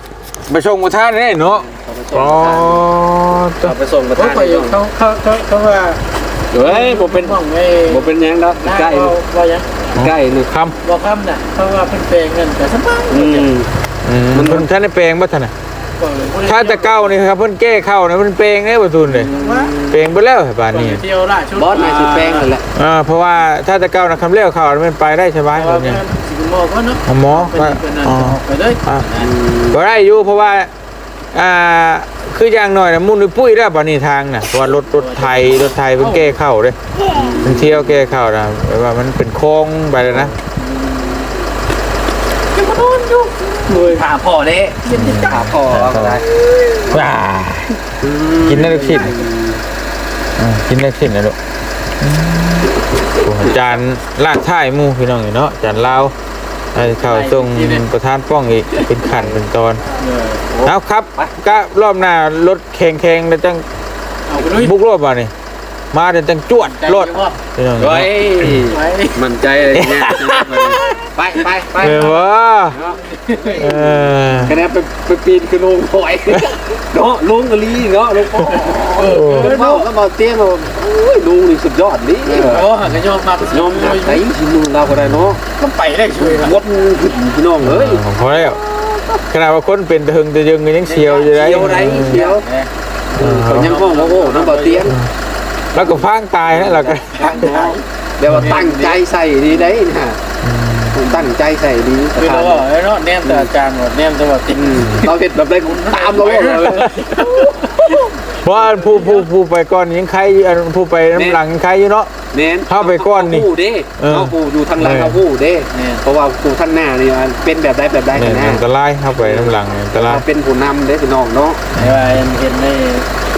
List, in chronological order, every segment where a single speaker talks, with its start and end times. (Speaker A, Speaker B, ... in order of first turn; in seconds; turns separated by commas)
Speaker A: 0.5-3.8, Speaker B: 1.6-2.8, Speaker B: 3.6-4.8, Speaker C: 4.2-6.0, Speaker B: 6.5-7.4, Speaker C: 6.5-8.1, Speaker B: 7.9-9.1, Speaker C: 8.6-9.8, Speaker B: 9.9-10.5, Speaker A: 10.0-10.8, Speaker C: 10.8-13.5, Speaker B: 13.1-13.7, Speaker A: 14.0-15.5, Speaker B: 14.3-14.7, Speaker C: 16.0-17.0, Speaker A: 16.4-19.3, Speaker B: 19.1-20.1, Speaker C: 19.3-19.8, Speaker A: 19.9-21.0, Speaker C: 20.7-22.5, Speaker B: 21.5-22.6, Speaker A: 22.7-26.0, Speaker C: 25.5-29.3, Speaker A: 27.1-29.1, Speaker B: 29.2-29.8, Speaker A: 29.7-30.7, Speaker A: 31.3-36.8, Speaker C: 35.0-35.4, Speaker C: 36.0-36.4, Speaker B: 37.1-37.8, Speaker A: 37.4-40.3, Speaker C: 40.7-41.2, Speaker C: 42.5-44.1, Speaker B: 43.7-46.2, Speaker C: 44.9-45.5, Speaker A: 44.9-46.2, Speaker A: 46.9-47.7, Speaker B: 48.0-49.6, Speaker A: 48.4-49.1, Speaker A: 50.4-51.4, Speaker A: 52.0-56.1, Speaker A: 56.7-59.8, Speaker C: 57.0-57.8, Speaker C: 59.9-60.4, Speaker B: 60.5-61.3, Speaker A: 60.6-63.6, Speaker C: 64.3-64.7, Speaker A: 64.5-65.3, Speaker A: 65.9-68.6, Speaker C: 66.7-67.3, Speaker B: 67.8-72.2, Speaker C: 68.7-69.2, Speaker A: 69.7-71.1, Speaker A: 71.8-72.8, Speaker B: 72.7-82.7, Speaker C: 73.1-73.8, Speaker A: 73.6-74.6, Speaker C: 78.8-79.8, Speaker A: 79.0-79.5, Speaker C: 82.3-84.2, Speaker B: 83.4-85.4, Speaker A: 84.9-85.3, Speaker C: 85.5-86.5, Speaker B: 86.2-88.1, Speaker A: 87.6-88.6, Speaker A: 89.3-92.2, Speaker B: 90.9-92.5, Speaker C: 91.9-95.0, Speaker A: 93.2-93.8, Speaker B: 93.2-95.0, Speaker A: 95.7-97.7, Speaker B: 96.5-100.2, Speaker C: 97.4-97.8, Speaker A: 98.3-98.6, Speaker C: 98.3-99.0, Speaker A: 100.4-101.0, Speaker B: 100.9-102.7, Speaker C: 102.2-105.1, Speaker B: 104.5-107.0, Speaker C: 105.7-107.8, Speaker A: 107.0-112.1, Speaker B: 111.1-111.4, Speaker B: 112.3-118.6, Speaker A: 112.7-115.2, Speaker C: 115.7-116.0, Speaker A: 118.1-120.2, Speaker B: 119.2-121.6, Speaker C: 121.7-123.1, Speaker A: 121.8-122.1